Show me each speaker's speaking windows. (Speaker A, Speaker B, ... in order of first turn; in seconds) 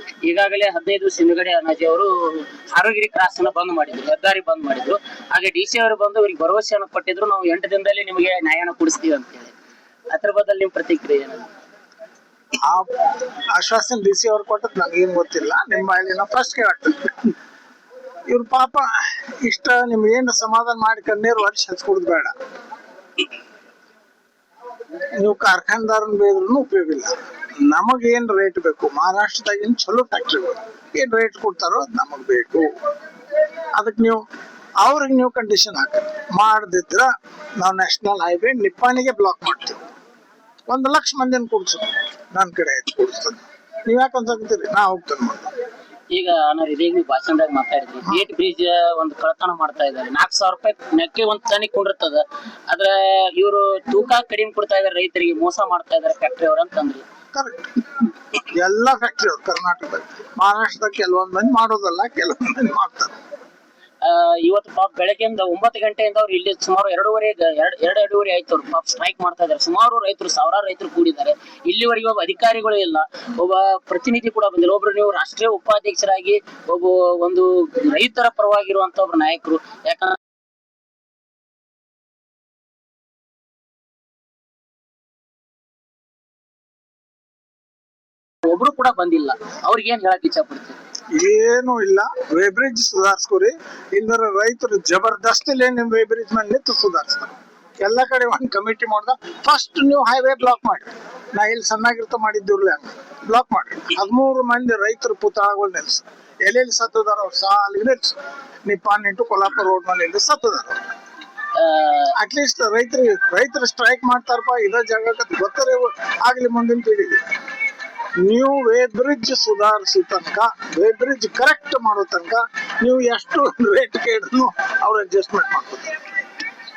Speaker A: 0.2-9.5, 10.1-11.4, 46.1-57.0, 64.0-80.2, 88.4-90.8, 111.5-112.1
Speaker B: 12.6-12.9, 13.5-17.3, 18.3-22.3, 25.2-27.1, 27.7-32.7, 33.8-34.2, 34.8-39.8, 40.7-45.5, 57.3-57.7, 58.4-63.2, 91.1-110.8, 112.2-117.2, 118.2-126.0